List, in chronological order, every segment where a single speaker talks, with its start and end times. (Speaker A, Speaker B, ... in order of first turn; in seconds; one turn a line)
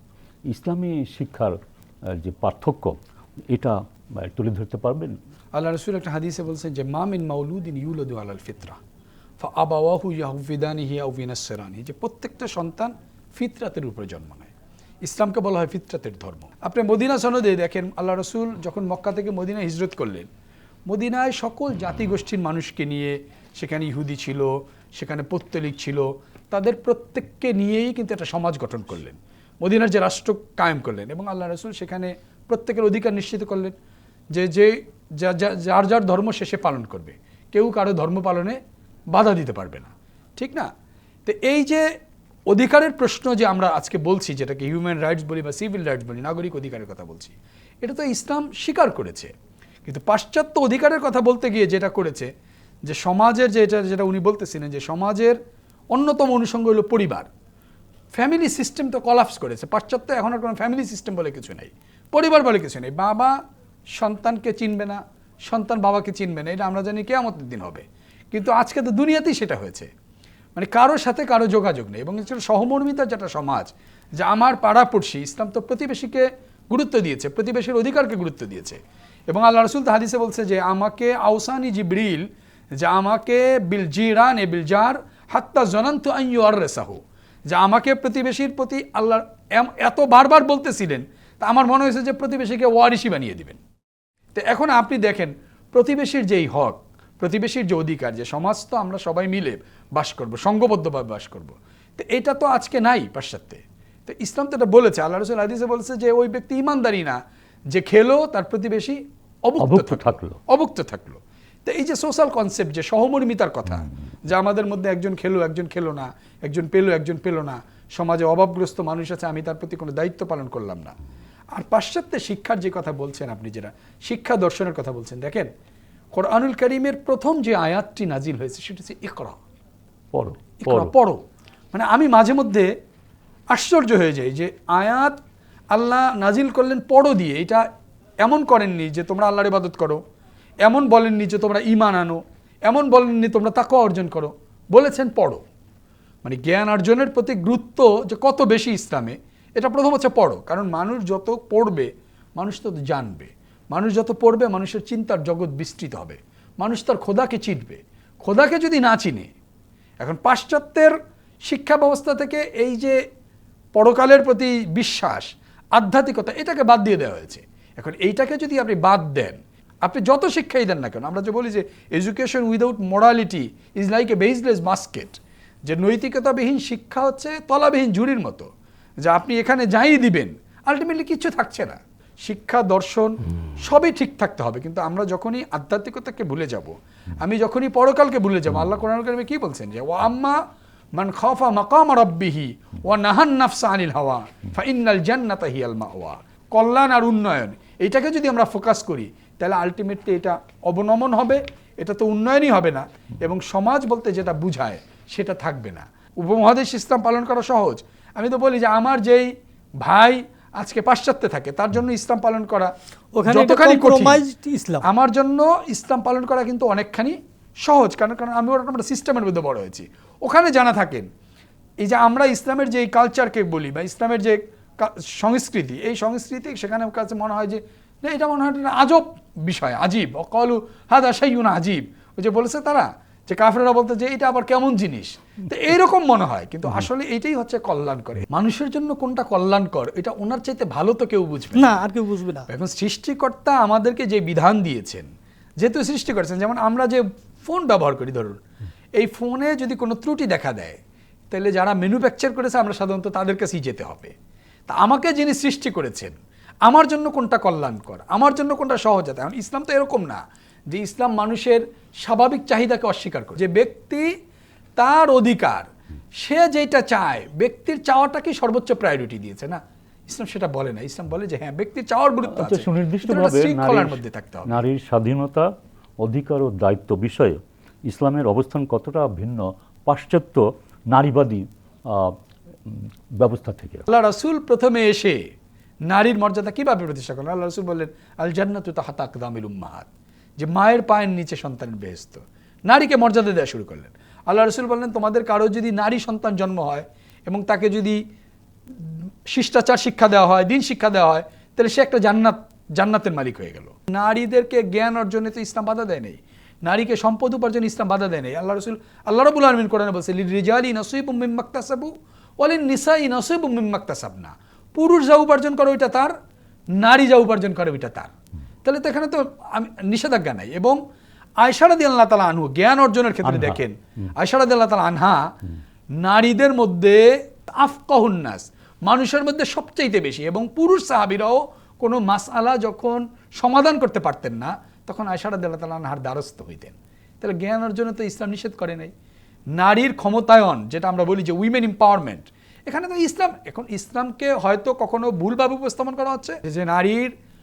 Speaker A: 0.5-1.5
Speaker A: 2.2-3.0
Speaker A: 3.5-5.2
Speaker B: 5.5-8.8
Speaker B: 9.4-14.5
Speaker B: 15.0-20.3
Speaker B: 20.9-33.7
Speaker B: 34.3-38.6
Speaker B: 39.1-40.7
Speaker B: 41.3-41.9
Speaker B: 42.5-49.3
Speaker B: 49.9-52.3
Speaker B: 52.9-55.4
Speaker B: 55.9-57.3
Speaker B: 58.1-63.4
Speaker B: 64.0-69.9
Speaker B: 70.6-82.3
Speaker B: 82.8-87.0
Speaker B: 87.5-93.6
Speaker B: 94.3-107.2
Speaker B: 107.7-121.0
Speaker A: 109.6-110.4
Speaker B: 121.5-125.5
Speaker B: 126.1-129.4
Speaker A: 130.1-130.9
Speaker B: 130.6-131.2
Speaker B: 131.7-132.7
Speaker B: 133.5-135.2
Speaker B: 135.7-137.7
Speaker B: 138.2-140.0
Speaker B: 140.7-145.4
Speaker B: 146.2-159.3
Speaker B: 160.0-160.9
Speaker B: 161.5-163.0
Speaker B: 163.8-178.5
Speaker B: 179.0-190.4
Speaker B: 191.0-209.3
Speaker B: 209.8-212.7
Speaker C: 213.2-214.8
Speaker B: 213.3-214.2
Speaker B: 214.8-221.1
Speaker B: 221.8-241.8
Speaker C: 241.6-242.5
Speaker B: 242.5-245.1
Speaker B: 245.6-248.4
Speaker B: 249.0-250.8
Speaker B: 251.3-254.1
Speaker B: 254.7-260.2
Speaker B: 260.7-264.1
Speaker B: 264.8-265.7
Speaker B: 266.2-274.6
Speaker A: 272.3-275.5
Speaker A: 276.0-282.1
Speaker A: 282.7-283.9
Speaker B: 283.9-285.2
Speaker B: 285.9-289.9
Speaker B: 290.4-298.0
Speaker B: 298.8-316.1
Speaker B: 316.8-318.1
Speaker B: 318.6-320.8
Speaker B: 321.4-325.2
Speaker A: 323.2-323.6
Speaker B: 326.0-338.9
Speaker B: 339.6-347.1